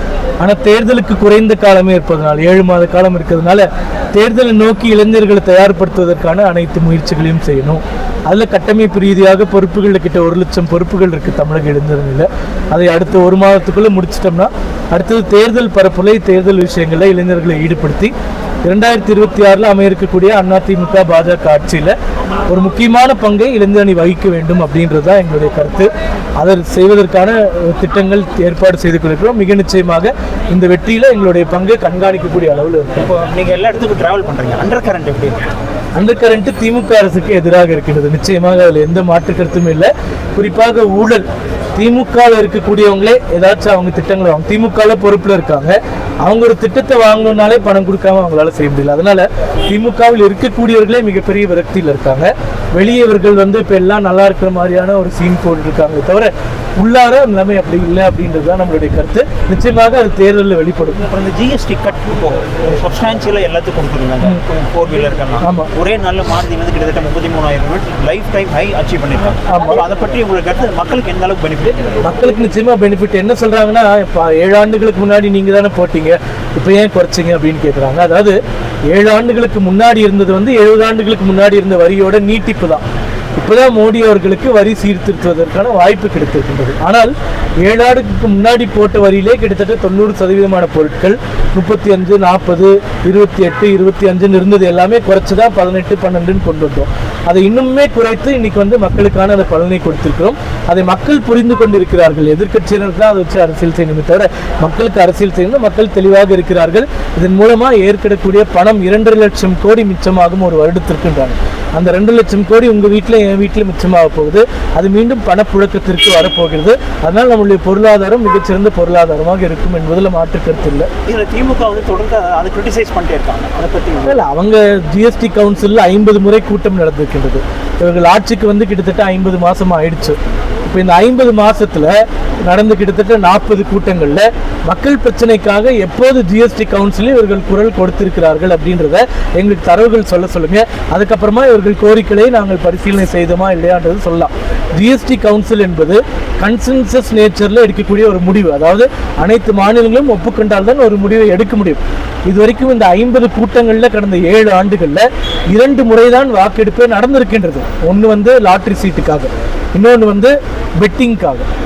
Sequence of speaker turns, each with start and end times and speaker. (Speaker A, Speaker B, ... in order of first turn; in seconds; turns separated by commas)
Speaker A: 0.4-18.1, Speaker A: 18.6-21.9, Speaker A: 22.5-33.1, Speaker B: 33.0-35.5, Speaker A: 36.0-41.2, Speaker A: 41.8-61.0, Speaker B: 61.1-72.0, Speaker A: 65.4-65.7, Speaker A: 69.5-69.8, Speaker A: 72.0-78.4, Speaker A: 78.9-82.8, Speaker A: 83.4-120.9, Speaker B: 121.1-124.2, Speaker A: 124.1-161.5